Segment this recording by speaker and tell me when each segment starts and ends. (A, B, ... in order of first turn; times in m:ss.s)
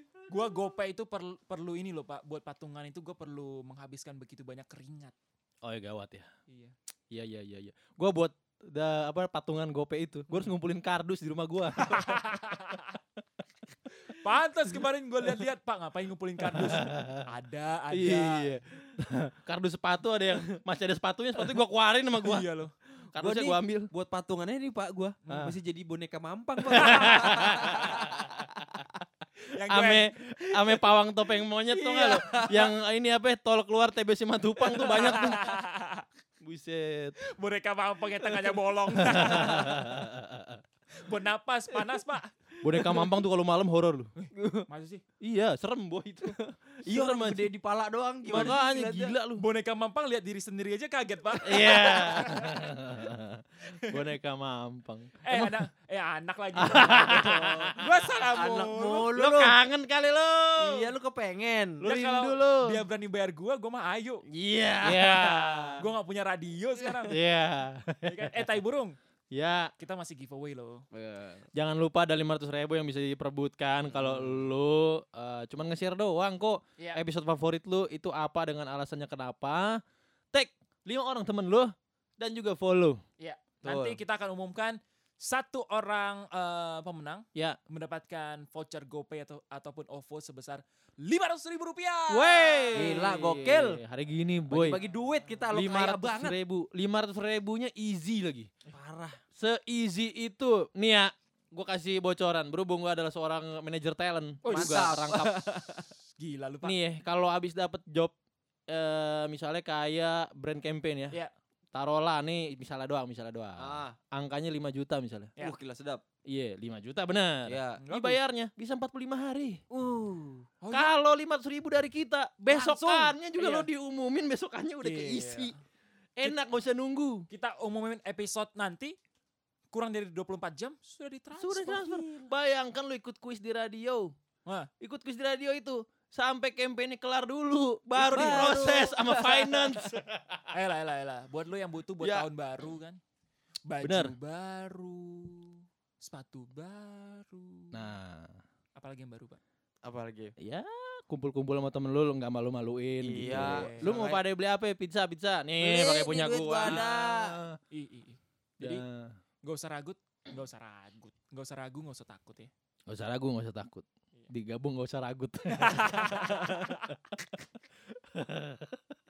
0:00.3-0:05.1 A
0:05.6-0:06.3 B
0:06.5-0:06.7 A
0:07.1-0:12.2 B
0:11.8-0:13.0 A
0:14.1-0:18.5 A
0:16.4-0:17.2 B
0:17.9-0:22.5 B
0:22.2-0:22.7 A
0:23.1-0:23.9 B
0:23.1-0:28.0 C
0:25.2-0:25.5 A
0:25.3-0:25.5 B
0:26.7-0:28.6 B
0:27.4-0:28.0 A
0:29.4-0:30.1 A
0:29.7-0:35.6 B
0:31.7-0:32.7 C
0:34.8-0:36.0 A
0:36.4-0:37.2 B
0:37.4-0:40.0 A
0:38.9-0:40.6 B
0:40.9-0:42.3 A
0:42.6-0:44.1 B
0:42.7-0:43.1 C
0:44.2-0:45.0 A
0:44.3-0:44.7 C
0:45.2-0:47.5 B
0:46.3-0:49.1 C
0:48.3-0:49.4 B
0:49.4-0:52.6 A
0:51.4-0:55.5 B
0:53.7-0:54.0 A
0:55.2-0:59.1 A
0:56.6-0:57.9 B
0:57.4-0:59.6 C
0:59.0-1:00.9 B
1:00.6-1:01.9 C
1:01.8-1:02.8 B
1:01.8-1:04.2 A
1:04.3-1:05.8 B
1:05.0-1:05.6 C
1:05.0-1:07.2 A
1:07.0-1:08.4 B
1:08.0-1:09.0 A
1:09.3-1:09.7 B
1:09.8-1:10.8 A
1:11.0-1:11.4 C
1:11.5-1:19.8 B
1:14.0-1:14.4 C
1:20.3-1:23.0 B
1:23.2-1:33.1 A
1:23.6-1:24.0 C
1:32.1-1:34.8 B
1:32.1-1:33.8 C
1:34.5-1:36.3 C
1:35.5-1:38.5 B
1:38.7-1:39.2 C
1:39.4-1:45.3 B
1:44.4-1:45.3 A
1:44.5-1:45.8 C
1:46.2-1:46.8 A
1:46.6-1:48.1 B
1:48.7-1:51.2 B
1:51.7-1:55.3 B
1:53.6-1:54.0 C
1:55.4-1:56.0 C
1:56.2-1:59.6 B
1:57.4-1:57.8 C
1:57.8-1:58.2 A
1:59.7-2:00.5 C
2:00.6-2:00.9 A
2:00.7-2:05.5 B
2:02.6-2:03.1 C
2:03.0-2:03.7 A
2:04.8-2:05.6 A
2:06.2-2:07.3 B
2:07.3-2:09.0 A
2:09.7-2:12.1 A
2:11.3-2:14.1 B
2:14.8-2:20.5 B
2:18.0-2:18.6 A
2:18.0-2:19.8 C
2:20.5-2:23.0 A
2:22.0-2:22.3 B
2:23.6-2:27.8 A
2:23.8-2:24.1 B
2:27.7-2:28.4 B
2:28.8-2:29.4 A
2:29.8-2:30.3 C
2:30.4-2:37.6 B
2:33.0-2:34.2 C
2:33.3-2:33.9 A
2:35.6-2:37.3 C
2:37.7-2:38.8 A
2:38.6-2:39.1 B
2:39.4-2:42.5 A
2:42.9-2:46.3 B
2:45.6-2:47.4 A
2:47.9-2:48.8 B